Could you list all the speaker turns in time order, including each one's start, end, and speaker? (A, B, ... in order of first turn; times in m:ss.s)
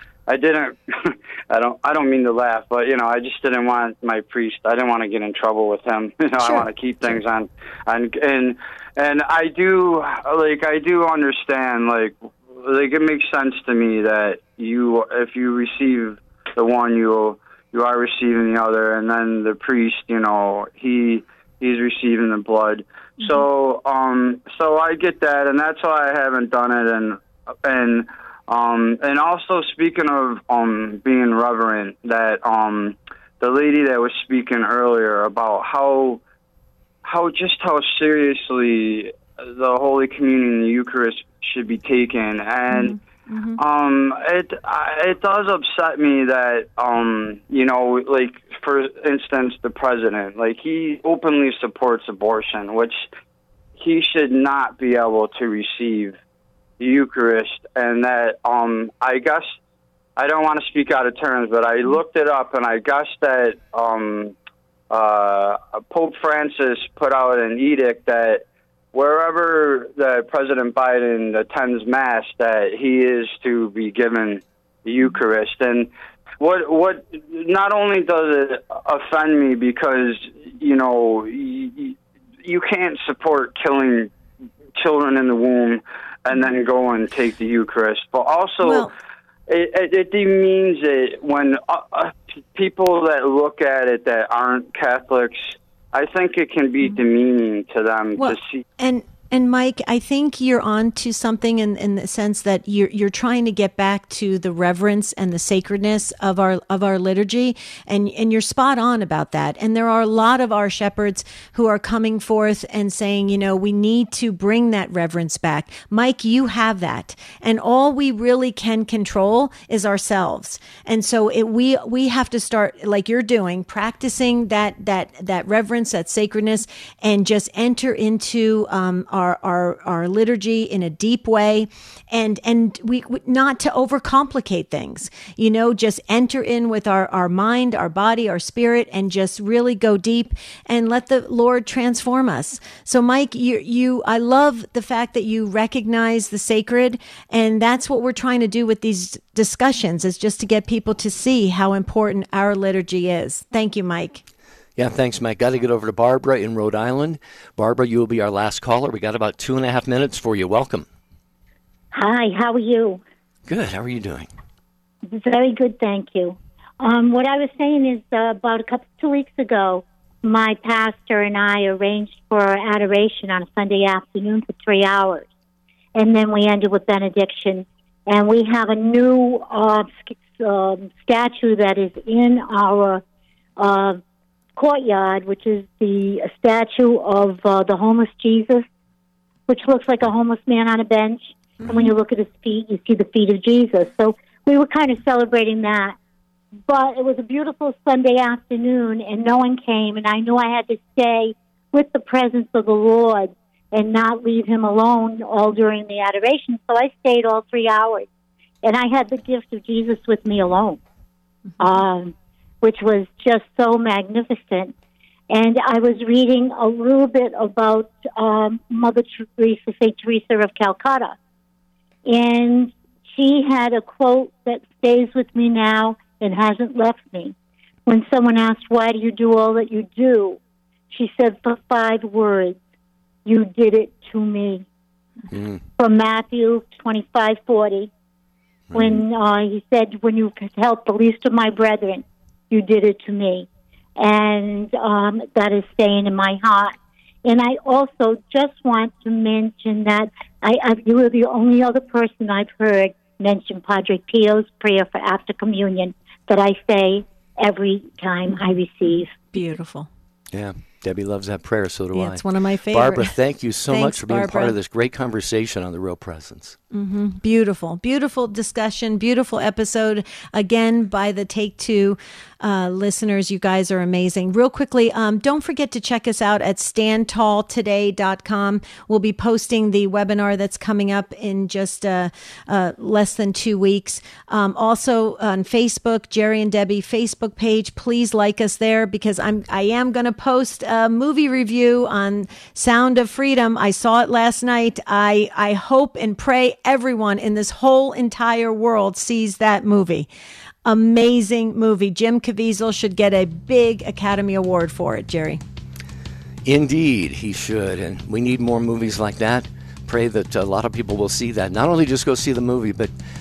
0:00.3-0:36.2 A
0:06.4-0:07.2 B
0:37.0-0:43.0 A
0:42.7-0:43.6 B
0:43.6-0:53.0 A
0:53.8-0:56.2 A
0:56.8-0:59.6 A
1:00.2-1:04.4 A
1:04.9-1:24.1 A
1:24.8-1:28.9 A
1:28.6-1:28.9 B
1:29.5-1:38.6 A
1:38.2-2:34.2 B
2:34.8-2:40.9 C
2:41.9-2:43.0 D
2:43.5-2:44.3 C
2:45.1-2:55.3 D
2:56.0-3:03.0 D
3:03.6-3:04.0 D
3:04.6-3:08.7 D
3:09.5-3:16.0 D
3:16.7-3:28.1 D
3:28.6-3:30.8 D
3:31.6-3:34.7 D
3:35.3-3:41.2 D
3:42.1-3:47.4 D
3:47.9-3:50.4 D
3:50.9-3:52.6 D
3:53.2-3:54.7 D
3:55.3-3:55.6 C
3:55.8-3:57.9 D
3:58.7-3:59.0 C
3:58.7-4:19.3 D
4:19.3-4:19.9 B
4:20.3-4:26.6 C
4:21.9-4:23.2 B
4:23.7-4:24.6 B
4:26.7-5:00.1 B
5:00.6-5:05.4 B
5:06.4-5:12.9 C